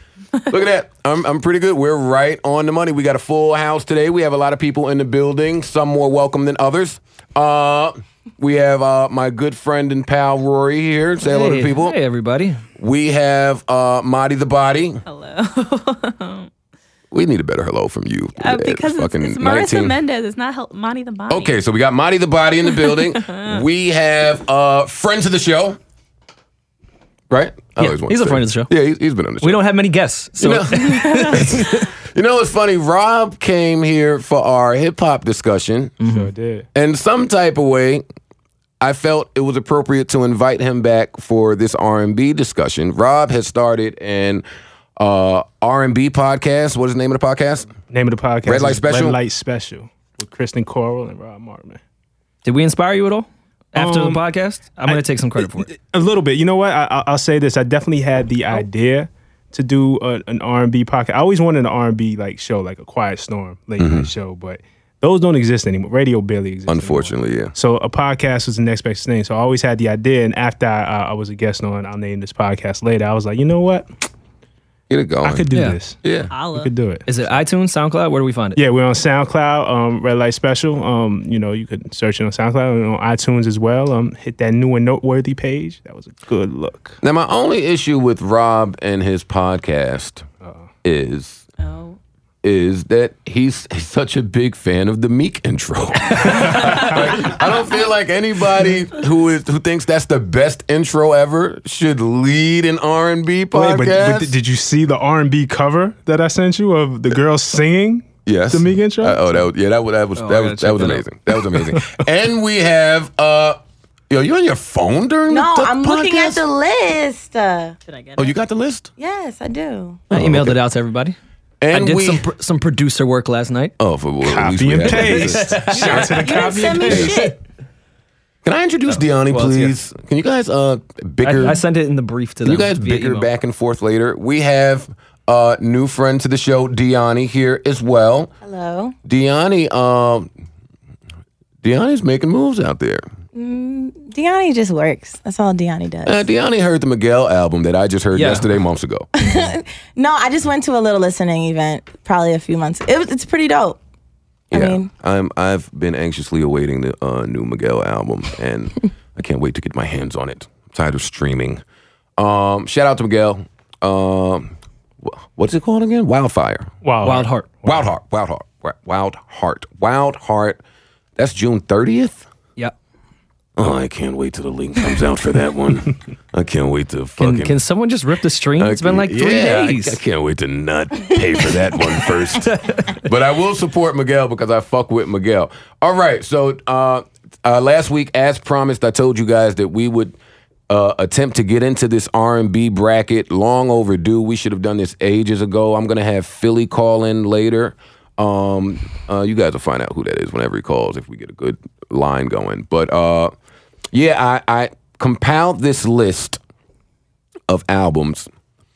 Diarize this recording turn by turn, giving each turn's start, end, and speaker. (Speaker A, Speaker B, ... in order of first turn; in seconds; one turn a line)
Speaker A: 0.4-0.6
Speaker B: 0.5-11.9
Speaker C: 11.2-12.6
Speaker B: 12.8-15.0
Speaker A: 15.1-16.5
Speaker B: 17.1-20.0
Speaker A: 18.4-21.5
Speaker B: 21.3-25.8
Speaker A: 22.6-23.6
Speaker B: 27.3-29.6
Speaker C: 27.8-28.7
Speaker C: 29.4-31.9
Speaker B: 30.4-36.0
Speaker C: 36.0-36.3
Speaker D: 36.1-36.7
Speaker B: 36.7-38.0
Speaker B: 38.8-44.4
Speaker B: 45.0-47.7
Speaker D: 47.9-51.8
Speaker B: 48.5-49.2
Speaker C: 52.4-55.7
Speaker D: 53.8-54.2
Speaker D: 54.9-73.9
Speaker B: 63.8-64.1
Speaker B: 66.7-67.5
Speaker B: 74.9-75.4
Speaker D: 75.2-76.0
Speaker C: 75.5-75.8
Speaker B: 76.0-76.3
Speaker A: 76.3-76.7
Speaker D: 76.5-77.0
Speaker C: 77.0-78.6
Speaker D: 78.5-87.0
Speaker B: 87.0-90.2
Speaker B: 90.8-91.4
Speaker A: 91.6-92.0
Speaker B: 92.4-104.3
Speaker A: 96.2-96.9
Speaker D: 103.5-109.4
Speaker B: 108.2-113.6
Speaker C: 110.2-111.0
Speaker D: 111.5-112.0
Speaker B: 114.1-116.4
Speaker E: 115.3-117.8
Speaker A: 117.9-118.4
Speaker B: 118.2-118.9
Speaker E: 119.0-120.0
Speaker B: 120.1-120.5
Speaker C: 120.1-121.2
Speaker B: 121.6-122.3
Speaker C: 121.7-123.7
Speaker B: 123.8-127.2
Speaker D: 124.2-127.2
Speaker C: 124.8-127.0
Speaker A: 125.8-127.4
Speaker B: 128.4-131.6
Speaker C: 128.9-129.7
Speaker C: 131.2-133.3
Speaker B: 132.4-138.3
Speaker E: 138.4-138.9
Speaker B: 139.0-140.3
Speaker B: 141.6-143.0
Speaker E: 143.3-146.2
Speaker B: 146.1-149.1
Speaker C: 148.1-148.5
Speaker E: 149.2-153.8
Speaker E: 154.5-154.9
Speaker B: 154.5-161.6
Speaker B: 162.2-166.7
Speaker D: 166.8-167.9
Speaker C: 167.0-167.5
Speaker B: 167.6-170.6
Speaker B: 171.2-172.3
Speaker B: 173.6-177.6
Speaker C: 177.2-180.0
Speaker B: 178.6-190.1
Speaker C: 182.0-183.0
Speaker B: 190.7-203.3
Speaker B: 203.9-206.4
Speaker B: 207.5-208.3